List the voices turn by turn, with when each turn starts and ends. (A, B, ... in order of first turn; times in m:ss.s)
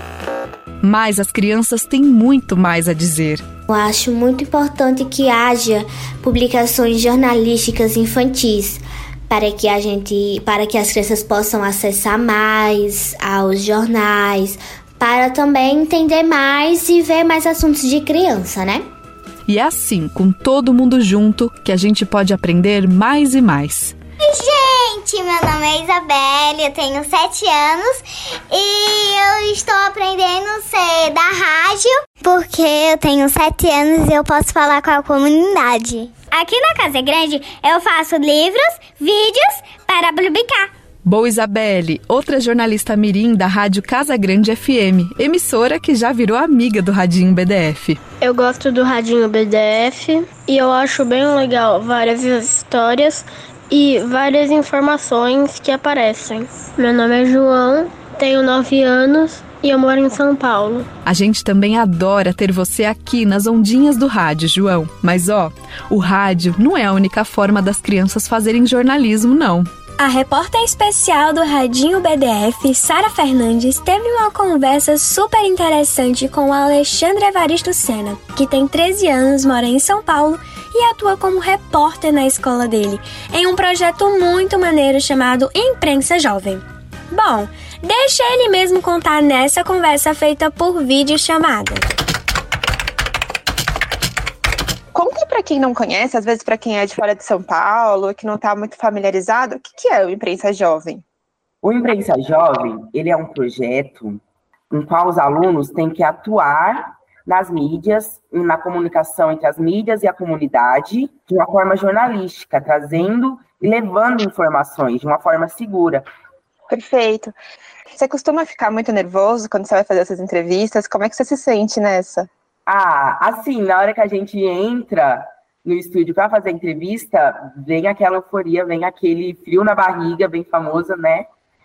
0:00.8-0:03.4 A
0:03.7-0:18.8 B
0:19.5-0:24.0 A
0:24.2-0:36.1 C
0:36.9-0:40.6 C
0:41.0-0:48.0 A
0:48.2-1:00.9 D
1:01.0-1:09.7 A
1:10.0-1:31.9 E
1:34.9-1:41.0 F
1:41.6-1:56.0 G
1:56.7-1:57.3 F
1:57.9-2:02.3 F
2:02.7-2:11.3 G